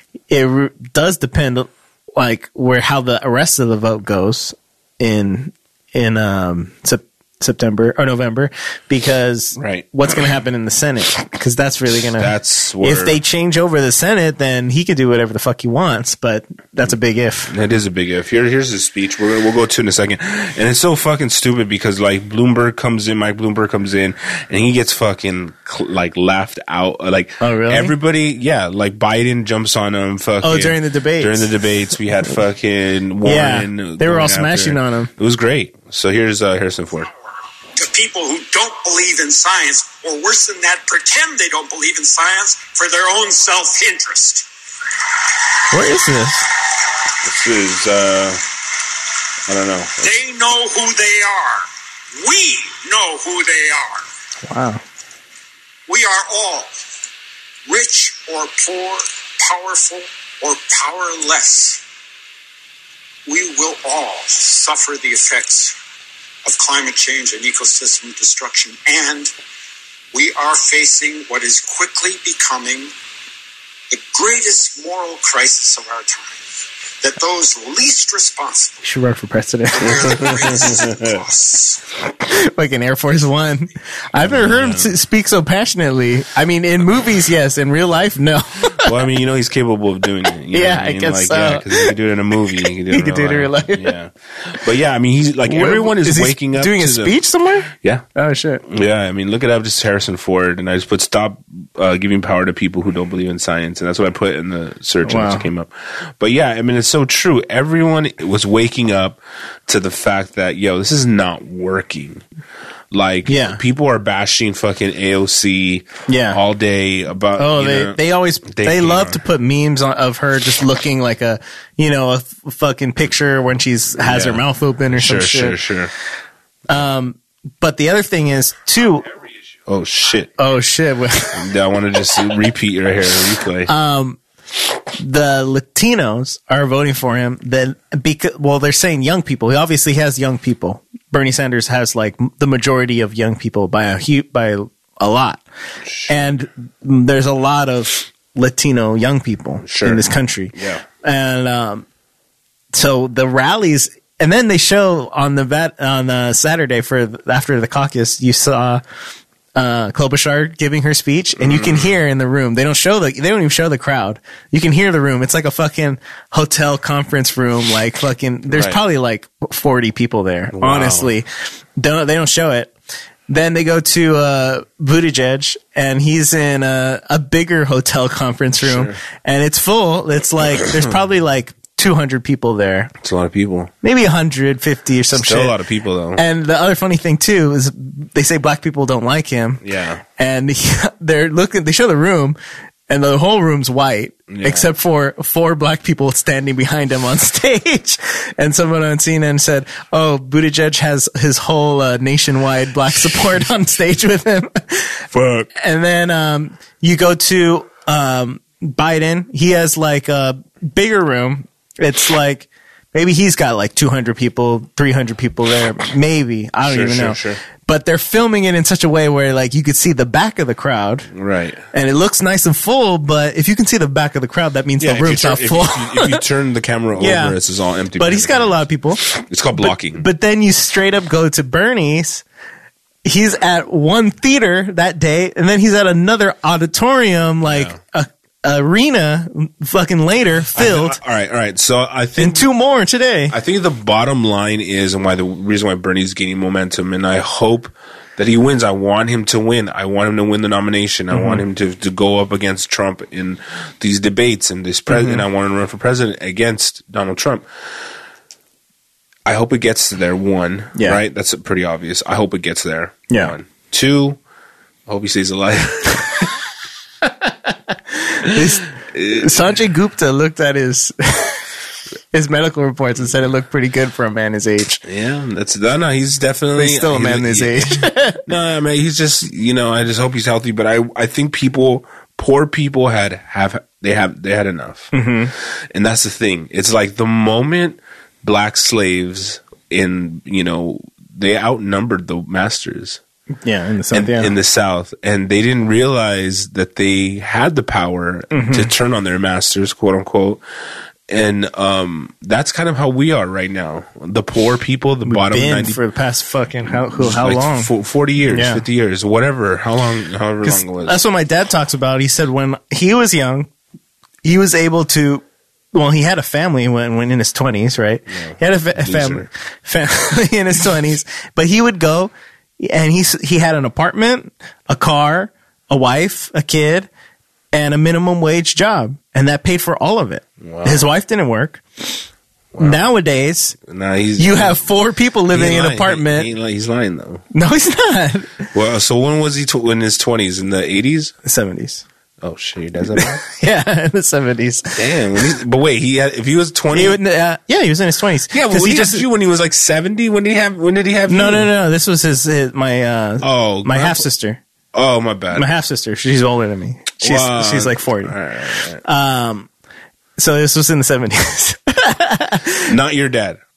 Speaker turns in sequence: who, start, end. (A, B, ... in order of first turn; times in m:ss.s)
0:00.3-0:17.5 A
0:09.6-0:09.9 B
0:12.2-0:13.2 B
0:17.5-0:37.1 B
0:27.4-0:27.9 A
0:30.4-0:31.4 A
0:33.2-0:35.1 A
0:37.8-0:44.4 C
0:45.7-0:46.5 A
0:47.2-0:48.4 B
0:49.5-0:50.1 B
0:50.0-0:54.0 C
0:54.4-0:54.8 A
0:55.9-0:56.7 C
0:57.7-1:01.8 C
1:03.2-1:05.8 C
1:06.4-1:09.3 C
1:10.1-1:12.9 C
1:13.9-1:16.4 C
1:17.0-1:18.8 C
1:18.8-1:20.4 A
1:19.8-1:21.2 B
1:19.8-1:21.8 C
1:22.2-1:28.9 A
1:24.2-1:24.9 B
1:28.8-1:37.2 B
1:30.5-1:31.9 A
1:32.4-1:34.0 A
1:35.5-1:38.6 A
1:37.7-1:38.0 B
1:38.6-1:52.2 B
1:45.0-1:45.5 A
1:52.9-1:59.2 B
1:53.3-1:53.6 A
1:56.1-1:56.4 A
1:57.4-2:05.6 A
2:04.0-2:05.9 B
2:06.7-2:09.1 A
2:09.7-2:10.3 B
2:10.4-2:11.4 A
2:11.3-2:13.7 B
2:13.7-2:14.2 A
2:14.9-2:25.4 A
2:25.8-2:26.1 B
2:26.1-2:31.8 A
2:29.6-2:30.8 B
2:32.7-2:38.8 A
2:39.5-2:52.7 A
2:41.4-2:41.9 B
2:48.5-2:48.8 B
2:50.5-2:51.1 B
2:53.3-3:02.9 A
2:58.6-2:59.0 B
3:03.0-3:03.7 B
3:03.8-3:05.6 A
3:05.1-3:06.2 B
3:06.1-3:12.4 A
3:09.6-3:10.0 B
3:12.9-3:25.0 A
3:14.3-3:14.7 B
3:25.1-3:25.5 B
3:25.5-3:41.1 A
3:36.6-3:37.4 B
3:41.1-3:41.6 B
3:41.7-3:46.2 A
3:44.8-3:50.0 B
3:47.0-3:47.4 A
3:48.0-3:49.0 A
3:49.6-3:52.2 A
3:53.0-4:01.0 A
3:57.4-3:57.8 B
4:00.5-4:02.4 B
4:02.2-4:03.3 A
4:03.3-4:17.4 B
4:11.1-4:11.4 A
4:14.9-4:15.2 A
4:19.2-4:24.2 B
4:24.9-4:26.3 B
4:27.0-4:31.5 A
4:28.2-4:29.4 B
4:32.1-4:34.8 A
4:34.8-4:44.9 B
4:36.6-4:38.2 A
4:44.9-4:45.3 A
4:45.7-4:53.0 B
4:53.4-4:54.3 A
4:53.9-5:00.4 B
4:58.3-4:58.7 A
5:01.1-5:05.8 B
5:05.0-5:07.7 A
5:06.9-5:11.0 B
5:08.3-5:08.6 A
5:10.4-5:13.5 A
5:14.2-5:26.9 A
5:18.1-5:19.3 B
5:27.5-5:32.0 A
5:30.4-5:30.9 B
5:32.5-5:32.8 B
5:32.6-5:33.6 A
5:33.6-5:34.6 B
5:34.2-5:36.3 A
5:35.3-5:37.2 B
5:37.3-5:38.5 A
5:38.5-5:41.1 B
5:41.2-5:41.8 A
5:42.2-5:43.2 B
5:42.9-5:45.2 A
5:44.7-5:47.0 B
5:46.7-5:49.0 A
5:48.3-5:51.5 B
5:51.1-5:54.4 A
5:53.2-5:54.0 B
5:54.7-5:55.5 B
5:55.3-5:58.2 A
5:57.0-5:58.8 B
5:58.8-5:59.5 A
6:00.2-6:02.7 A
6:02.6-6:03.4 B